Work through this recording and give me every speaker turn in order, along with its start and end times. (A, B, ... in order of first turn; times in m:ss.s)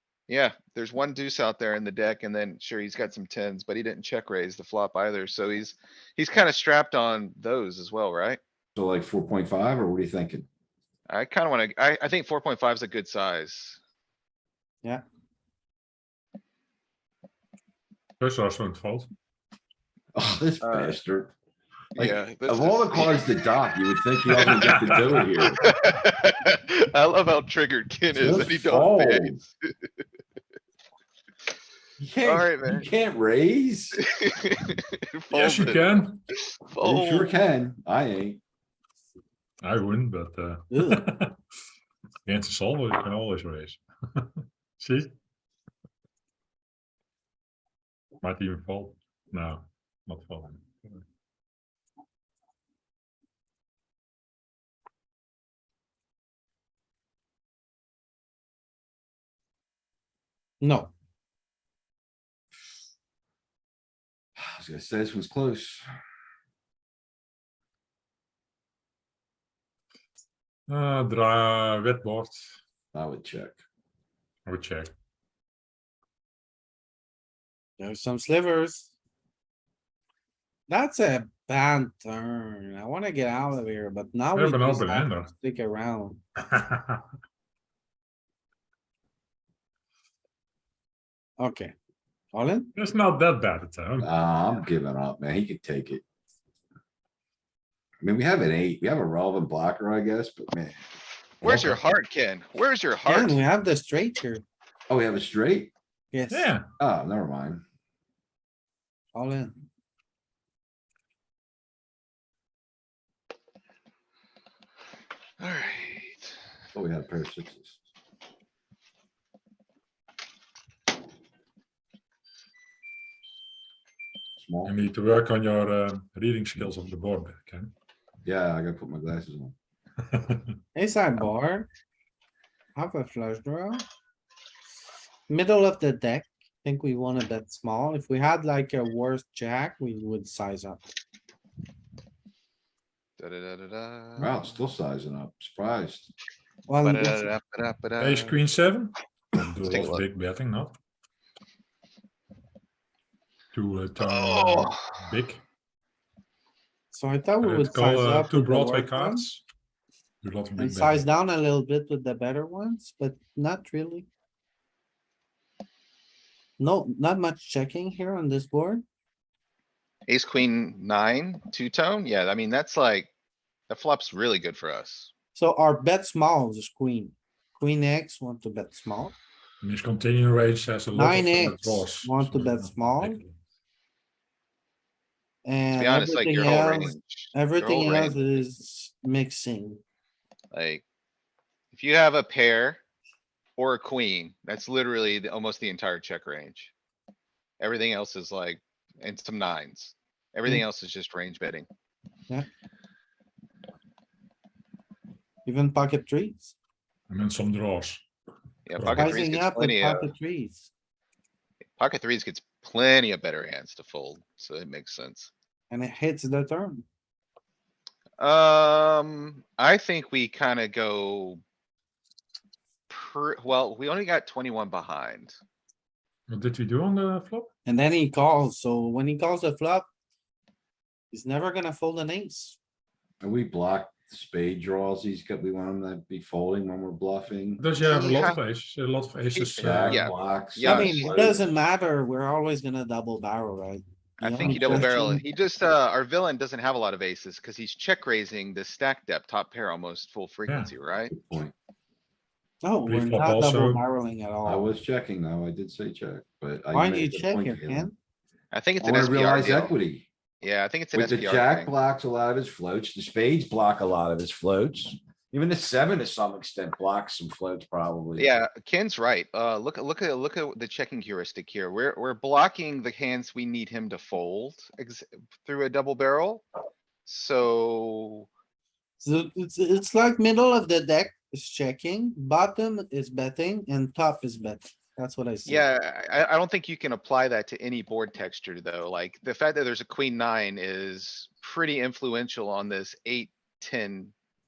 0:00.3-0:08.4 A
0:08.8-0:10.5 B
0:11.1-0:13.8 A
0:18.2-0:19.1 C
0:20.1-0:21.3 B
0:20.6-0:21.0 A
0:22.0-0:23.4 A
0:22.0-0:25.6 B
0:24.3-0:25.7 C
0:25.4-0:29.6 A
0:28.1-0:29.4 B
0:32.0-0:34.0 B
0:32.2-0:32.9 A
0:34.0-0:35.9 A
0:35.3-0:36.2 C
0:36.4-0:37.3 A
0:36.8-0:38.4 B
0:39.6-0:41.4 C
0:40.7-0:41.1 D
0:42.3-0:44.2 C
0:44.8-0:45.1 C
0:48.2-0:50.7 C
1:00.6-1:00.9 D
1:04.4-1:05.9 B
1:10.7-1:12.4 C
1:12.9-1:13.6 B
1:14.5-1:14.9 C
1:17.8-1:18.9 D
1:20.7-1:26.2 D
1:24.3-1:25.3 C
1:26.5-1:27.0 C
1:31.4-1:31.7 D
1:32.3-1:32.7 D
1:32.8-1:34.1 C
1:34.0-1:36.0 B
1:38.0-1:40.8 B
1:41.4-1:41.8 B
1:41.4-1:43.4 A
1:43.1-1:44.4 D
1:44.9-1:45.7 B
1:46.1-1:46.5 D
1:46.3-1:46.7 C
1:46.8-1:47.6 B
1:49.1-1:49.6 D
1:55.4-1:56.3 A
1:56.7-1:57.8 B
2:04.4-2:04.7 B
2:04.6-2:07.7 C
2:08.2-2:09.6 B
2:10.1-2:10.4 C
2:10.8-2:11.7 D
2:12.8-2:13.9 D
2:15.3-2:20.8 D
2:23.2-2:24.5 A
2:24.2-2:26.1 B
2:26.7-2:27.3 D
2:26.8-2:28.4 A
2:28.0-2:30.8 C
2:29.6-2:30.0 A
2:33.5-2:35.4 C
2:34.0-2:34.8 A
2:36.9-2:39.3 D
2:37.4-2:39.4 C
2:40.2-2:41.1 C
2:40.6-2:44.1 D
2:46.6-2:48.8 D
2:50.1-2:53.1 A
2:53.7-2:55.1 A
2:55.4-2:59.2 D
2:59.6-3:03.4 C
3:01.0-3:03.2 D
3:05.4-3:09.8 D
3:05.8-3:08.2 A
3:10.5-3:10.8 A
3:11.7-3:12.8 A
3:13.6-3:16.7 A
3:17.6-3:21.7 A
3:25.4-3:26.6 D
3:27.1-3:28.0 C
3:28.7-3:30.1 A
3:28.8-3:29.2 C
3:29.0-3:30.7 D
3:31.8-3:35.3 A
3:35.7-3:36.8 D
3:38.2-3:41.4 A
3:42.9-3:45.4 A
3:46.3-3:47.5 C
3:47.7-3:49.9 D
3:51.1-3:52.6 D
3:53.2-3:57.6 B
3:57.6-4:00.0 C
3:57.8-3:58.4 A
3:59.3-4:01.2 A
3:59.6-4:01.6 B
4:00.6-4:05.2 D
4:04.2-4:11.2 A
4:04.5-4:04.9 B
4:11.1-4:11.5 B
4:12.6-4:14.7 D
4:12.9-4:13.8 C
4:14.4-4:17.9 B
4:16.7-4:18.0 D
4:18.5-4:19.8 A
4:18.8-4:20.1 B
4:20.4-4:21.7 A
4:20.9-4:28.3 B
4:28.2-4:36.5 A
4:37.0-4:38.3 A
4:39.0-4:45.6 D
4:45.5-4:54.1 A